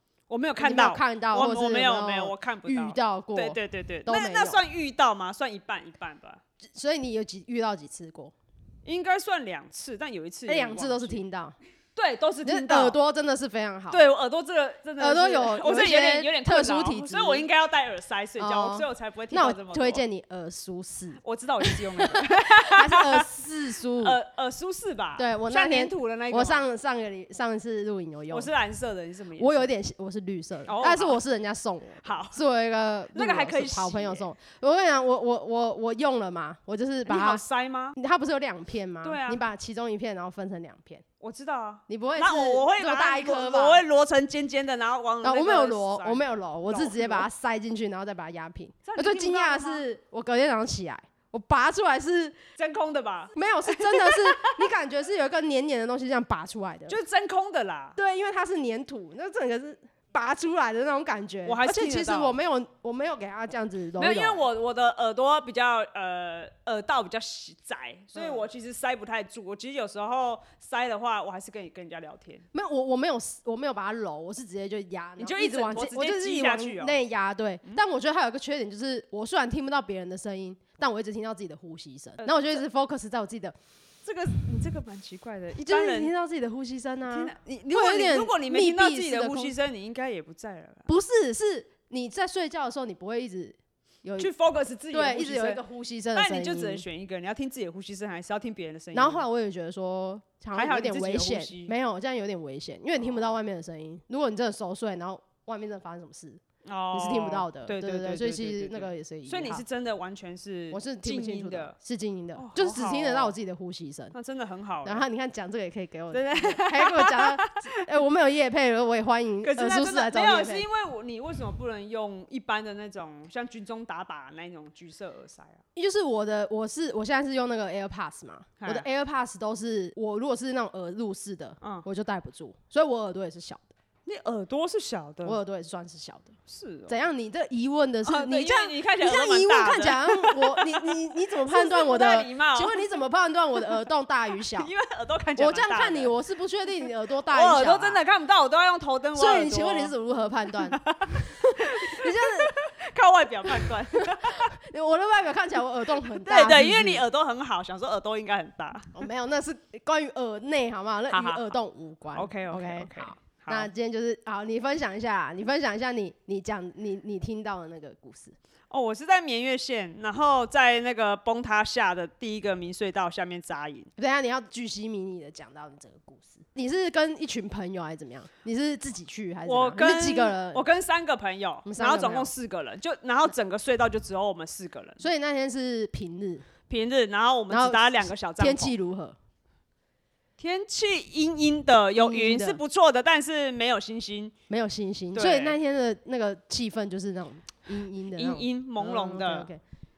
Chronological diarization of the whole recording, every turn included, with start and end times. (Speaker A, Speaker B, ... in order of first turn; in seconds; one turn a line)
Speaker A: 0.3-6.4
Speaker B: 0.6-4.6
Speaker B: 6.6-8.3
Speaker A: 8.8-11.2
Speaker B: 10.5-11.6
Speaker A: 11.9-13.0
Speaker B: 12.4-14.0
Speaker A: 13.9-20.0
Speaker B: 15.0-17.5
Speaker B: 18.4-24.2
Speaker A: 21.2-23.3
Speaker A: 24.0-26.6
Speaker B: 25.2-28.5
Speaker A: 28.3-29.7
Speaker B: 29.4-37.4
Speaker A: 30.6-31.2
Speaker A: 32.0-32.4
Speaker A: 33.1-34.3
Speaker A: 37.0-38.0
Speaker B: 37.9-41.0
Speaker A: 39.0-39.4
Speaker A: 41.2-47.3
Speaker B: 41.9-43.8
Speaker B: 45.2-52.4
Speaker A: 48.8-49.8
Speaker A: 52.6-54.6
Speaker B: 53.3-57.0
Speaker A: 56.9-58.0
Speaker B: 58.0-64.4
Speaker A: 61.5-62.3
Speaker A: 64.0-72.5
Speaker B: 68.1-68.5
Speaker B: 72.5-83.5
Speaker A: 75.2-77.0
Speaker A: 82.2-82.6
Speaker A: 84.0-86.1
Speaker B: 85.5-89.5
Speaker A: 87.1-90.9
Speaker B: 90.9-94.3
Speaker A: 94.2-95.6
Speaker B: 94.9-96.8
Speaker A: 96.1-99.2
Speaker B: 98.9-106.4
Speaker A: 100.5-101.7
Speaker A: 106.6-111.7
Speaker B: 106.9-109.6
Speaker B: 110.7-114.1
Speaker A: 112.3-113.3
Speaker A: 114.1-115.0
Speaker B: 114.8-120.7
Speaker A: 116.1-117.7
Speaker A: 119.4-125.6
Speaker B: 125.7-133.7
Speaker A: 128.6-128.8
Speaker A: 131.6-131.8
Speaker A: 134.0-135.4
Speaker B: 135.2-136.3
Speaker A: 136.5-137.0
Speaker B: 136.9-144.7
Speaker A: 138.0-142.8
Speaker A: 144.6-146.1
Speaker B: 145.4-148.0
Speaker A: 147.3-149.9
Speaker B: 149.1-152.5
Speaker A: 150.7-154.5
Speaker B: 153.5-157.0
Speaker A: 156.1-159.1
Speaker B: 158.9-168.3
Speaker A: 161.1-161.5
Speaker A: 162.1-163.7
Speaker A: 168.7-173.9
Speaker B: 174.0-180.6
Speaker A: 179.4-185.0
Speaker B: 181.6-182.3
Speaker B: 185.0-186.5
Speaker A: 186.7-188.7
Speaker B: 187.5-189.2
Speaker A: 190.4-194.3
Speaker B: 191.9-192.6
Speaker B: 194.5-199.6
Speaker A: 195.1-195.6
Speaker A: 198.2-199.5